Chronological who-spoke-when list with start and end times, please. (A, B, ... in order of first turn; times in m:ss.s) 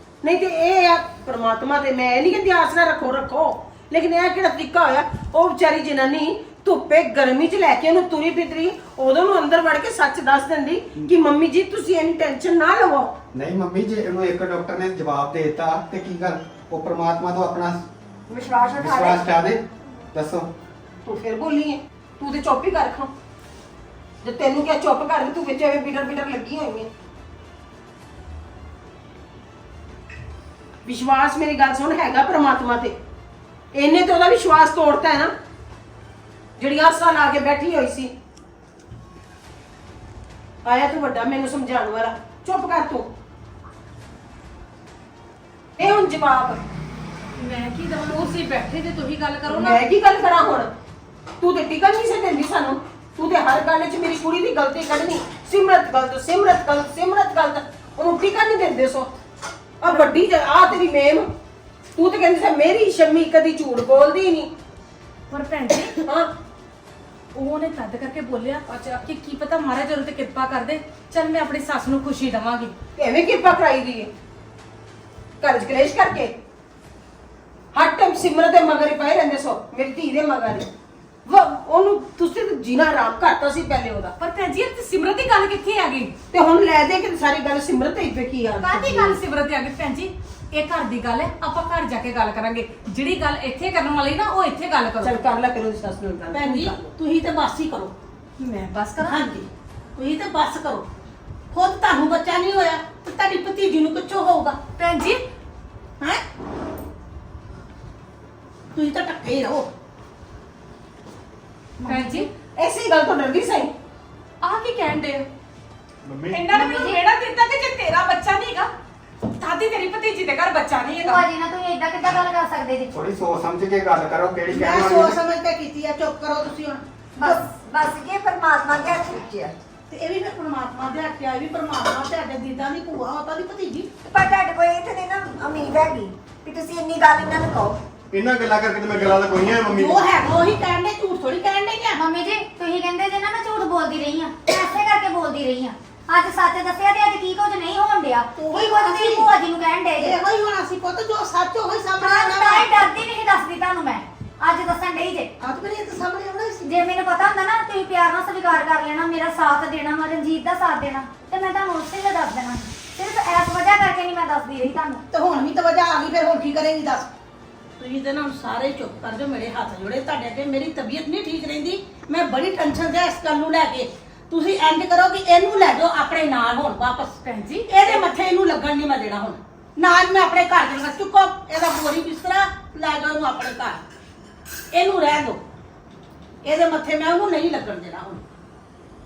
0:00.2-0:13.2 A
0:13.3-0:17.8 B
0:18.3-0:19.3 C
0:18.8-0:20.5 B
0:21.0-0:23.1 A
0:24.2-0:26.9 A
0:30.8-0:33.0 A
0:33.7-0:35.3 A
0:36.6-0:38.1 A
0:40.6-0:43.1 A
0:45.8-0:46.6 A
0:47.4-0:49.8 D
0:49.5-0:50.7 A
0:51.4-0:59.1 A
0:59.8-1:01.3 A
1:02.0-1:04.5 A
1:05.3-1:05.9 D
1:06.0-1:06.3 A
1:07.3-1:12.7 D
1:13.0-1:14.1 A
1:15.4-1:16.3 A
1:17.7-1:20.7 A
1:21.3-1:24.1 A
1:24.2-1:26.1 D
1:26.3-1:29.2 A
1:28.6-1:35.2 D
1:35.0-1:36.9 A
1:36.3-1:37.9 E
1:38.4-1:39.2 D
1:39.0-1:40.9 E
1:41.5-1:44.6 E
1:44.8-1:45.2 D
1:48.8-1:49.7 E
1:51.8-1:52.3 F
1:51.9-1:52.3 D
1:52.6-1:53.7 A
1:54.4-1:55.2 D
1:56.0-1:56.4 G
1:56.3-1:58.7 D
1:56.5-1:57.0 F
1:59.3-2:01.2 D
2:01.0-2:02.9 F
2:02.9-2:05.2 B
2:04.5-2:07.3 E
2:07.2-2:09.5 C
2:09.9-2:13.9 E
2:14.1-2:17.8 C
2:18.1-2:20.0 G
2:19.7-2:22.0 E
2:22.0-2:30.2 F
2:28.4-2:29.3 E
2:30.0-2:32.8 E
2:32.0-2:35.3 F
2:35.4-2:36.7 E
2:36.6-2:45.0 F
2:45.1-2:47.1 E
2:47.8-2:57.2 E
2:57.2-2:57.7 D
2:57.7-3:03.8 E
3:04.7-3:05.4 E
3:06.4-3:08.2 E